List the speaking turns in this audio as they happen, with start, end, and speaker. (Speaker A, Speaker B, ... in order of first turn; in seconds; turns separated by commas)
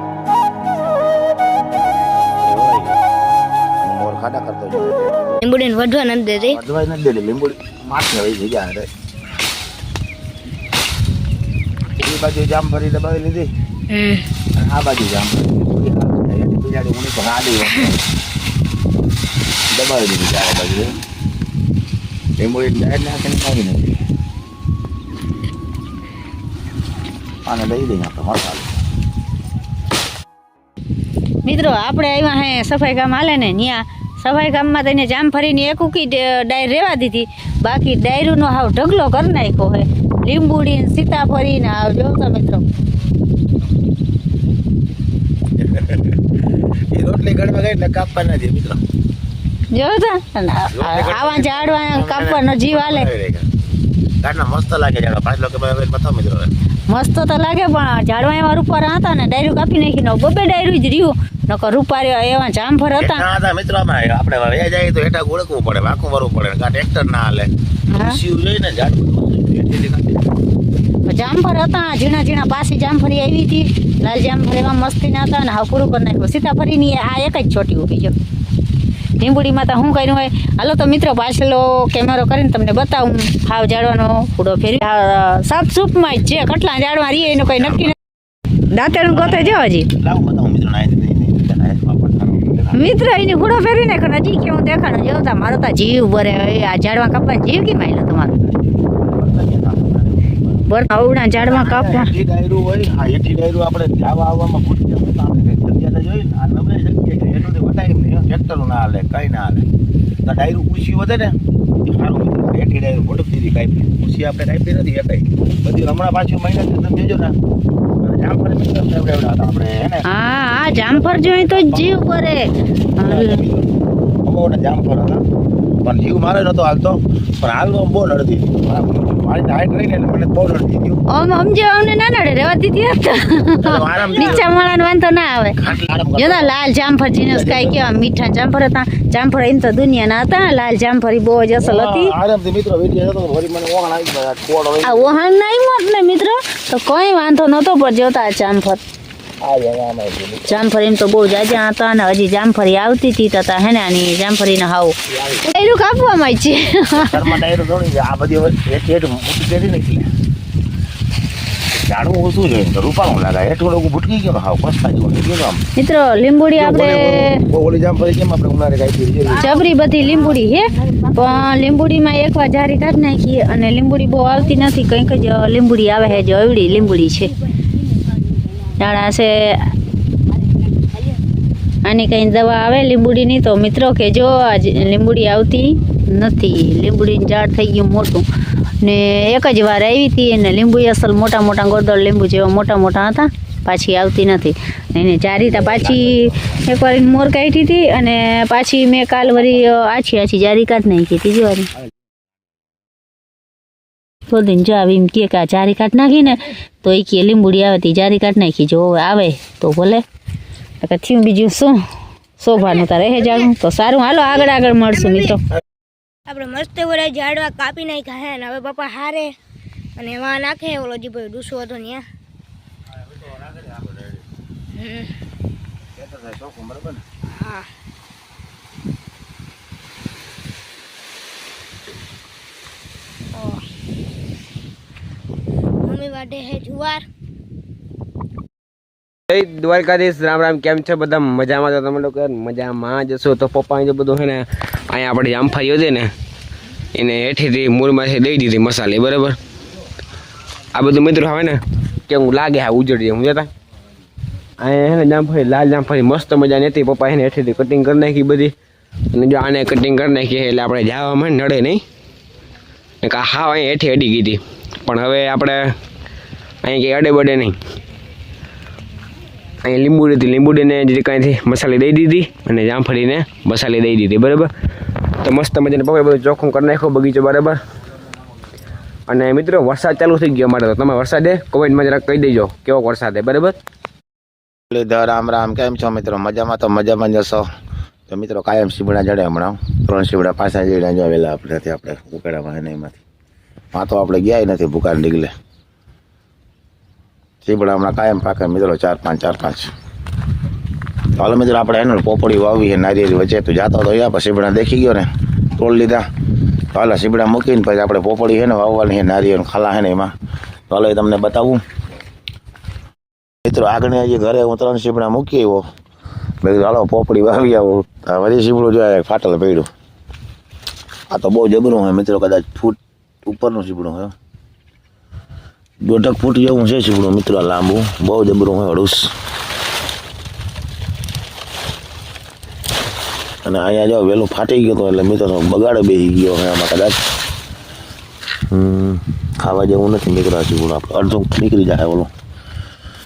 Speaker A: 0.6-1.3, Speaker B: 2.4-3.0, Speaker B: 3.8-5.4, Speaker C: 5.4-6.6, Speaker B: 6.3-8.9, Speaker B: 12.0-13.5, Speaker C: 13.9-14.2, Speaker B: 14.5-18.0, Speaker B: 19.7-20.9, Speaker B: 22.4-24.0, Speaker B: 27.4-28.7, Speaker A: 31.4-42.6, Speaker B: 45.6-46.2, Speaker B: 46.9-48.8, Speaker A: 49.7-53.1, Speaker B: 50.7-53.5, Speaker B: 54.2-56.5, Speaker A: 56.9-63.2, Speaker B: 63.0-70.3, Speaker A: 67.9-68.2, Speaker A: 71.1-78.1, Speaker A: 79.2-88.0, Speaker B: 87.1-87.9, Speaker A: 88.7-89.9, Speaker B: 89.0-92.8, Speaker A: 92.7-98.3, Speaker B: 98.4-100.6, Speaker A: 100.7-102.1, Speaker B: 101.4-109.6, Speaker B: 110.2-117.3, Speaker B: 118.0-120.0, Speaker A: 120.0-123.4, Speaker B: 120.7-122.1, Speaker B: 123.0-123.7, Speaker B: 124.2-125.2, Speaker B: 125.8-131.0, Speaker A: 131.1-135.6, Speaker B: 133.6-134.5, Speaker B: 135.6-136.5, Speaker A: 136.2-142.1, Speaker B: 137.2-137.9, Speaker B: 141.6-145.1, Speaker A: 144.8-148.8, Speaker B: 149.4-150.6, Speaker A: 150.5-157.4, Speaker B: 155.1-155.4, Speaker B: 156.9-160.1, Speaker B: 161.7-165.6, Speaker A: 165.8-167.4, Speaker B: 166.5-169.5, Speaker A: 169.3-177.3, Speaker C: 170.3-171.2, Speaker C: 177.6-178.6, Speaker A: 178.8-179.6, Speaker C: 180.8-181.2, Speaker A: 181.8-188.2, Speaker A: 188.8-201.7, Speaker B: 195.8-196.1, Speaker A: 204.3-210.0, Speaker A: 210.8-211.8, Speaker A: 212.4-215.4, Speaker C: 212.6-213.5, Speaker C: 214.9-215.3, Speaker C: 216.3-219.3, Speaker C: 220.0-222.1, Speaker B: 223.6-223.9, Speaker C: 224.7-225.1, Speaker B: 225.9-227.0, Speaker C: 227.3-227.7, Speaker C: 233.3-233.6, Speaker C: 235.8-237.0, Speaker D: 239.3-246.1, Speaker D: 246.9-249.4, Speaker D: 250.7-253.5, Speaker D: 254.6-258.5, Speaker D: 259.1-261.8, Speaker D: 263.0-265.8, Speaker D: 266.6-267.6, Speaker D: 269.6-274.5, Speaker D: 275.2-277.6, Speaker D: 279.1-283.6, Speaker B: 284.7-287.4, Speaker B: 288.1-293.0, Speaker B: 293.7-295.3, Speaker B: 297.4-299.7, Speaker B: 301.1-306.1, Speaker B: 306.7-310.1, Speaker B: 310.7-311.6, Speaker B: 313.4-315.6, Speaker B: 316.4-319.7, Speaker B: 321.1-324.1, Speaker B: 325.8-329.1, Speaker B: 333.4-337.0, Speaker B: 338.5-342.1